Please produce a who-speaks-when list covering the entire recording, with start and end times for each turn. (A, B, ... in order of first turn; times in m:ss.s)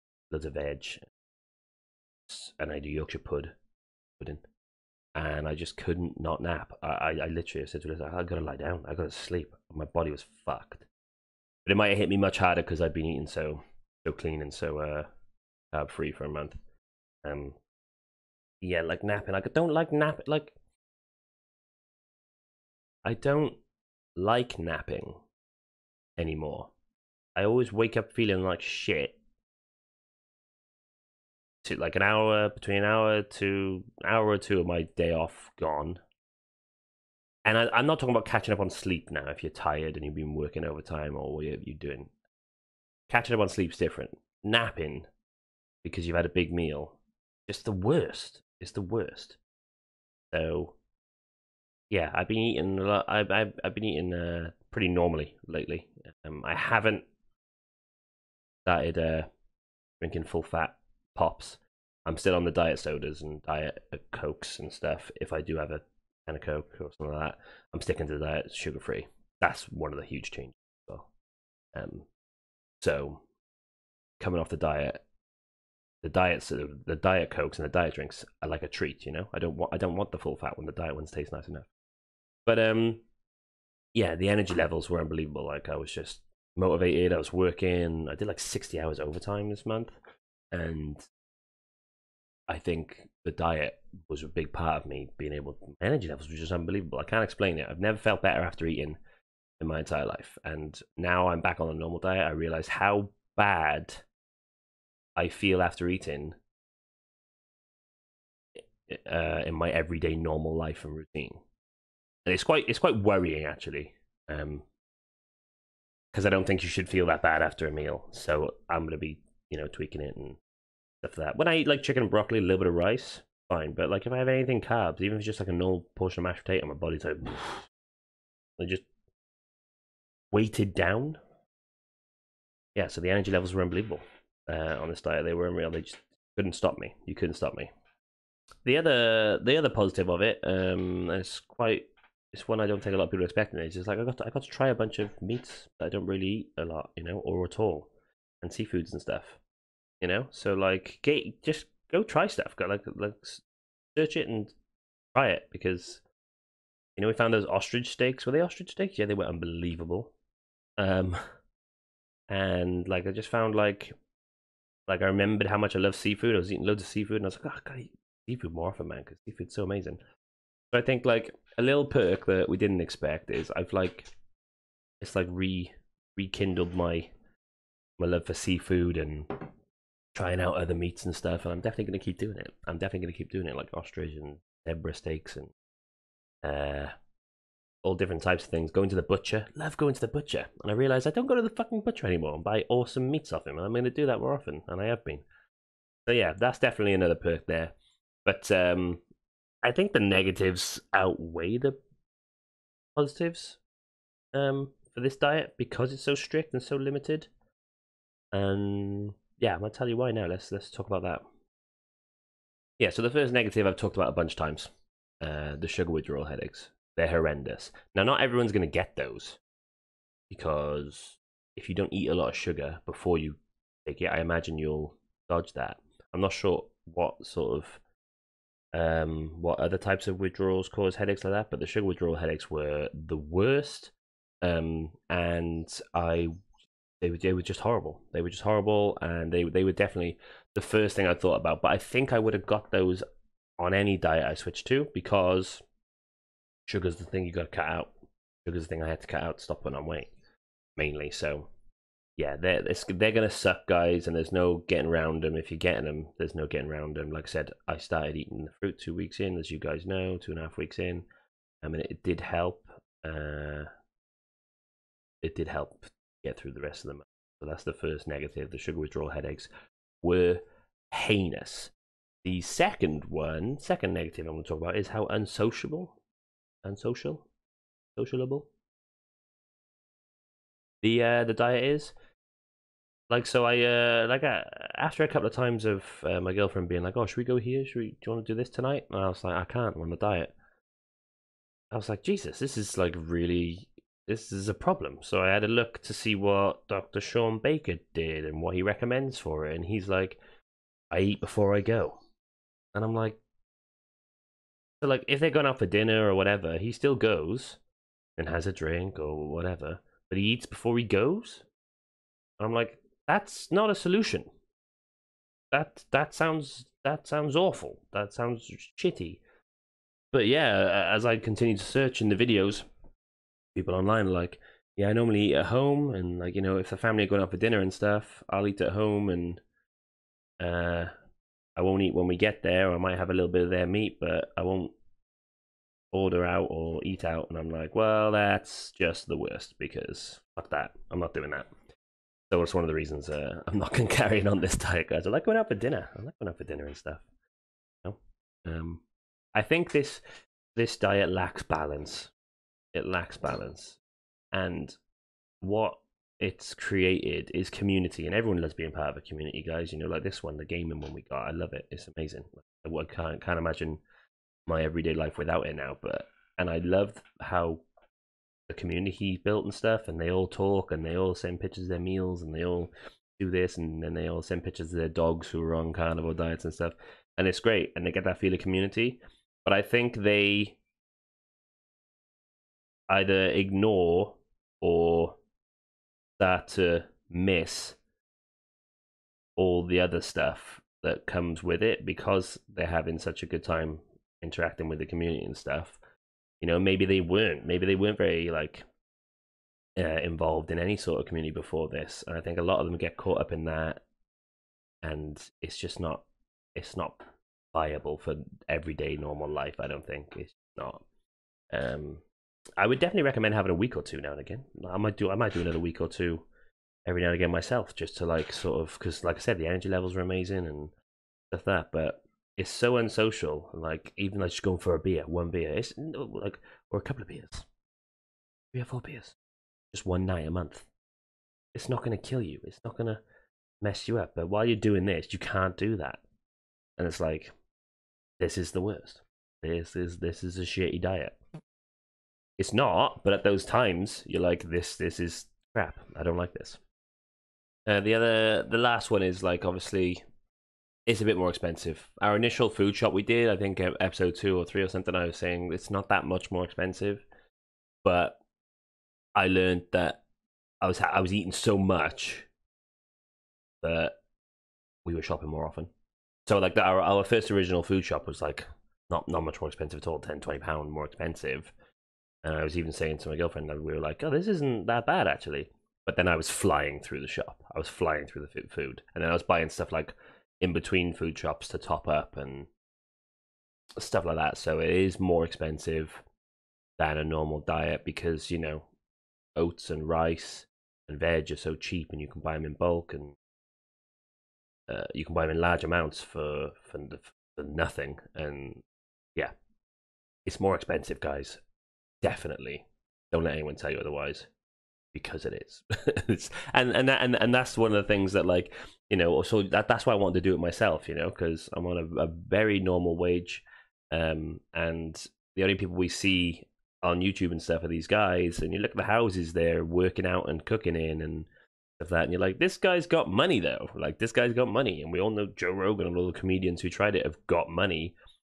0:00.3-0:01.0 A
0:02.3-0:03.5 A
0:04.2-0:04.4 A
0:05.1-0:10.9 A
0:11.6-0:15.1 A
0:15.7-0:16.6 A
0:17.2-0:17.6 A
0:18.6-0:20.5 A
0:23.0-0:23.6 A
0:24.2-0:25.2 A
0:26.2-0:26.7 A
0:27.4-0:29.2 A
0:31.6-0:36.0 A
0:37.4-0:42.1 A
0:43.1-0:45.1 A
0:45.8-0:49.4 A
0:50.3-0:50.8 A
0:51.9-0:57.1 A
0:58.6-0:59.3 A
1:00.0-1:11.1 A
1:11.7-1:12.1 A
1:12.8-1:13.2 A
1:14.2-1:15.0 A
1:16.0-1:21.7 A
1:22.4-1:23.0 A
1:23.9-1:30.0 A
1:30.5-1:31.0 A
1:32.5-1:39.0 A
1:39.6-1:44.0 A
1:45.2-1:46.4 A
1:48.6-1:51.4 A
1:52.2-1:54.6 A
1:56.1-2:00.4 A
2:01.0-2:07.7 A
2:08.6-2:08.9 A
2:10.3-2:11.2 A
2:12.8-2:17.7 A
2:18.6-2:27.9 A
2:28.4-2:29.4 A
2:30.0-2:33.4 A
2:33.9-2:34.5 A
2:35.1-2:36.0 A
2:37.0-2:40.1 A
2:40.8-2:41.2 A
2:42.3-2:43.9 A
2:44.9-2:50.0 A
2:50.7-2:54.1 A
2:55.0-2:57.1 A
2:58.0-2:59.3 A
3:00.1-3:05.5 A
3:06.4-3:06.9 A
3:07.8-3:15.2 A
3:16.1-3:17.7 A
3:18.2-3:19.0 A
3:19.6-3:21.8 A
3:23.0-3:23.6 A
3:24.3-3:27.3 A
3:28.3-3:31.2 A
3:32.8-3:34.7 A
3:35.2-3:39.4 A
3:40.3-3:47.8 A
3:48.7-3:56.3 A
3:57.0-4:03.0 A
4:03.6-4:05.6 A
4:06.7-4:07.9 A
4:08.4-4:10.1 A
4:10.8-4:11.5 A
4:12.2-4:21.1 A
4:21.6-4:23.7 A
4:25.2-4:29.5 A
4:30.0-4:31.7 A
4:32.2-4:36.0 A
4:36.6-4:37.2 A
4:38.0-4:38.5 A
4:40.8-4:41.9 A
4:43.1-4:50.3 A
4:51.7-5:00.2 A
5:00.9-5:02.0 A
5:02.7-5:03.2 A
5:04.8-5:07.6 A
5:08.2-5:11.4 A
5:12.4-5:14.3 A
5:15.5-5:19.2 A
5:20.1-5:22.6 A
5:23.6-5:29.4 A
5:30.4-5:30.9 A
5:31.6-5:34.7 A
5:35.9-5:41.5 A
5:42.3-5:47.0 A
5:47.8-5:48.8 A
5:49.3-5:50.0 A
5:50.6-5:52.1 A
5:52.7-5:53.8 A
5:54.3-5:54.8 A
5:55.4-6:03.8 A
6:04.5-6:07.6 A
6:08.5-6:20.6 A
6:22.9-6:25.2 A
6:26.2-6:27.8 A
6:29.4-6:35.8 A
6:36.4-6:38.6 A
6:39.8-6:43.8 A
6:44.8-6:50.8 A
6:51.5-6:52.0 A
6:52.6-6:56.2 A
6:56.8-7:00.7 A
7:01.3-7:07.4 A
7:08.5-7:09.2 A
7:09.7-7:10.7 A
7:11.5-7:13.0 A
7:13.6-7:16.0 A
7:16.8-7:17.3 A
7:18.2-7:21.2 A
7:22.4-7:26.6 A
7:27.7-7:30.0 A
7:30.8-7:37.0 A
7:37.8-7:38.2 A
7:39.2-7:40.0 A
7:40.6-7:42.3 A
7:43.6-7:44.0 A
7:44.8-7:45.7 A
7:46.2-7:51.5 A
7:52.2-8:02.5 A
8:03.8-8:06.0 A
8:06.8-8:08.7 A
8:09.4-8:13.2 A
8:14.7-8:18.6 A
8:20.2-8:21.4 A
8:22.0-8:24.3 A
8:24.9-8:47.9 A